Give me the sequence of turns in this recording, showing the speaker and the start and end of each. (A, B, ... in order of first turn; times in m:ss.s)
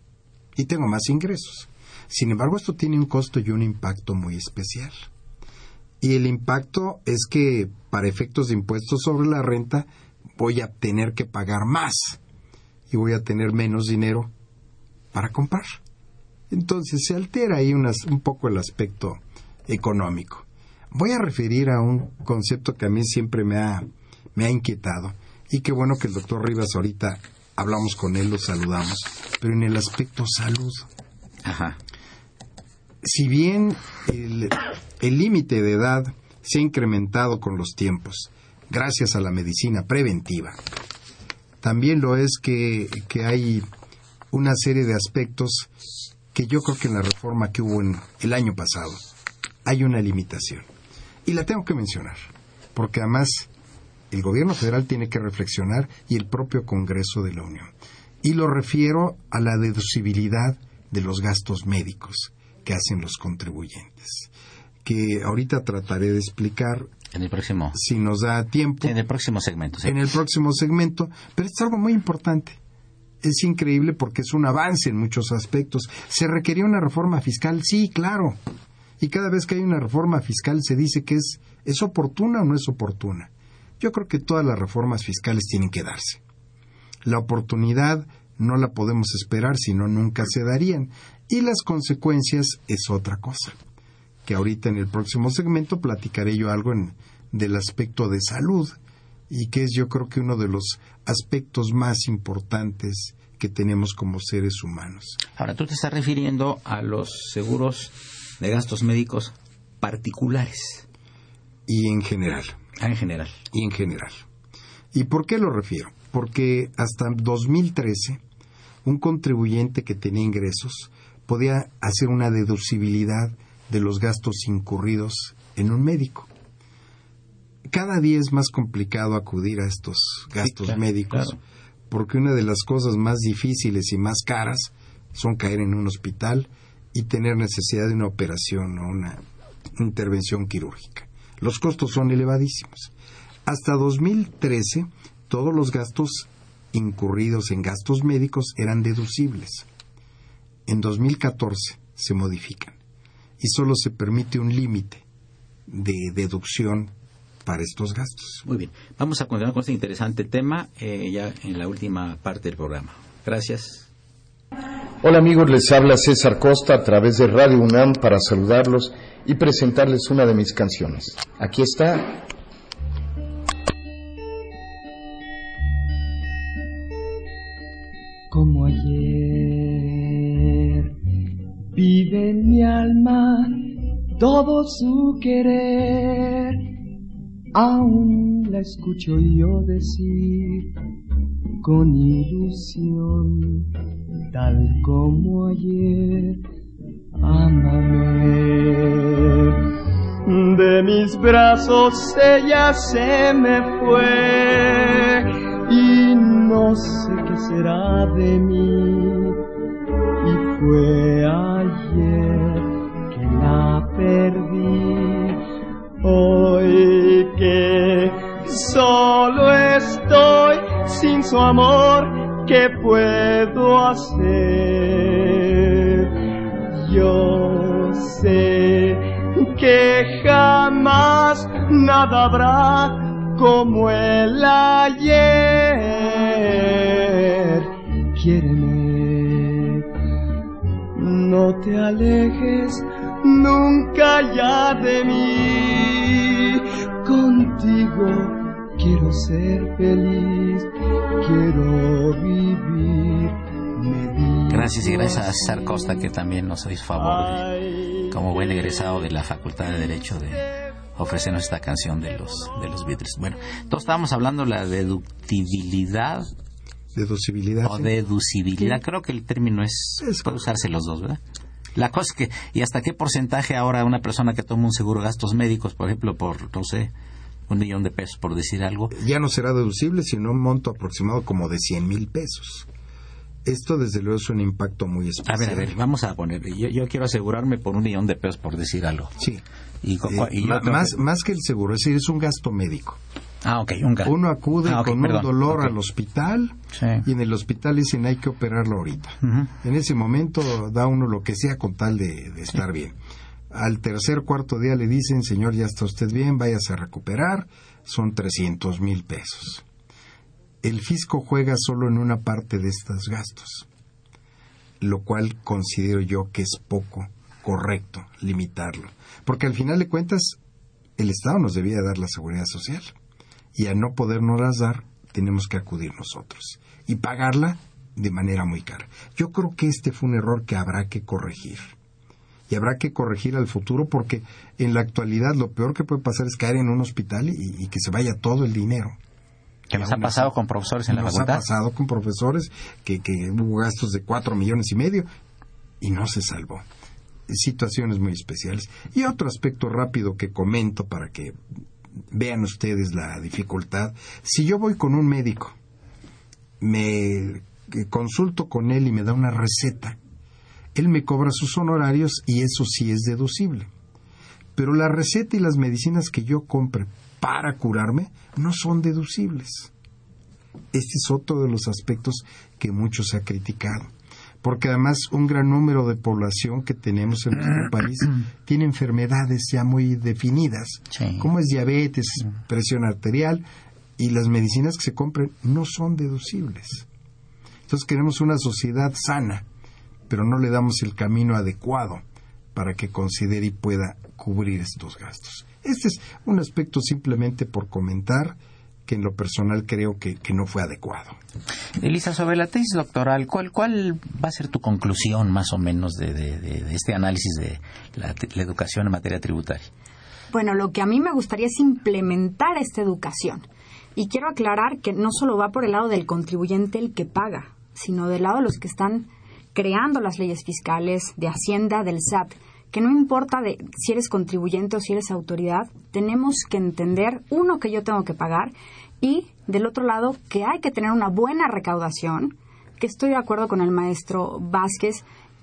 0:00.5-0:05.0 A
0:06.0-0:12.2 A
0:12.9-0:14.3 A
0:15.1-0:15.8 A
0:16.5-0:30.9 A
0:31.4-0:31.8 B
0:33.0-0:40.6 A
0:41.6-0:43.7 A
0:44.3-0:45.7 A
0:46.3-0:49.1 A
0:49.6-0:50.7 A
0:51.2-0:53.5 A
0:54.1-0:57.7 A
0:58.2-1:04.3 A
1:04.8-1:06.9 A
1:07.1-1:07.8 B
1:07.7-1:08.9 A
1:08.8-1:10.0 B
1:09.8-1:12.6 A
1:13.2-1:18.4 A
1:19.0-1:26.2 A
1:27.0-1:33.6 A
1:34.2-1:38.8 A
1:39.3-1:45.2 A
1:45.4-1:50.8 B
1:51.7-1:52.6 A
1:52.8-1:53.4 B
1:53.5-1:54.2 A
1:54.9-1:58.2 A
1:58.8-2:06.3 A
2:07.7-2:11.4 A
2:10.4-2:11.4 B
2:11.9-2:19.2 A
2:19.8-2:22.9 A
2:23.4-2:29.7 A
2:30.7-2:32.8 A
2:33.4-2:35.0 A
2:35.7-2:36.9 A
2:37.4-2:38.4 A
2:38.4-2:43.9 B
2:45.0-2:52.2 C
2:58.3-3:00.9 D
3:01.7-3:06.7 D
3:07.5-3:10.7 D
3:11.6-3:13.7 D
3:14.3-3:16.4 D
3:17.2-3:19.6 D
3:20.2-3:29.4 D
3:30.2-3:35.4 D
3:36.0-3:46.1 D
3:46.7-3:59.8 D
4:01.0-4:10.7 D
4:11.2-4:16.1 D
4:14.5-4:17.5 B
4:16.9-4:19.0 D
4:18.1-4:20.4 B
4:21.0-4:26.3 B
4:26.9-4:27.9 A
4:27.6-4:31.2 B
4:30.0-4:30.4 A
4:31.8-4:36.9 B
4:37.5-4:38.9 B
4:38.9-4:42.7 A
4:43.4-4:45.7 A
4:45.3-4:49.1 B
4:49.8-4:51.0 B
4:50.0-4:53.0 A
4:53.4-4:55.7 B
4:54.0-5:03.0 A
4:56.8-4:57.0 B
4:59.2-4:59.5 B
5:03.5-5:09.6 A
5:10.6-5:13.7 A
5:14.8-5:20.4 A
5:21.0-5:22.9 A
5:23.5-5:31.7 A
5:32.5-5:39.0 A
5:39.7-5:41.4 B
5:39.7-5:40.3 A
5:40.9-5:45.1 A
5:45.8-5:46.6 A
5:47.3-5:51.4 A
5:52.1-5:55.6 A
5:56.6-6:00.0 A
6:00.7-6:03.7 A
6:04.6-6:09.7 A
6:10.7-6:13.9 A
6:14.4-6:23.4 A
6:20.9-6:21.3 B
6:24.0-6:26.8 A
6:27.7-6:29.4 A
6:30.1-6:41.2 A
6:41.8-6:49.7 B
6:50.3-7:15.0 E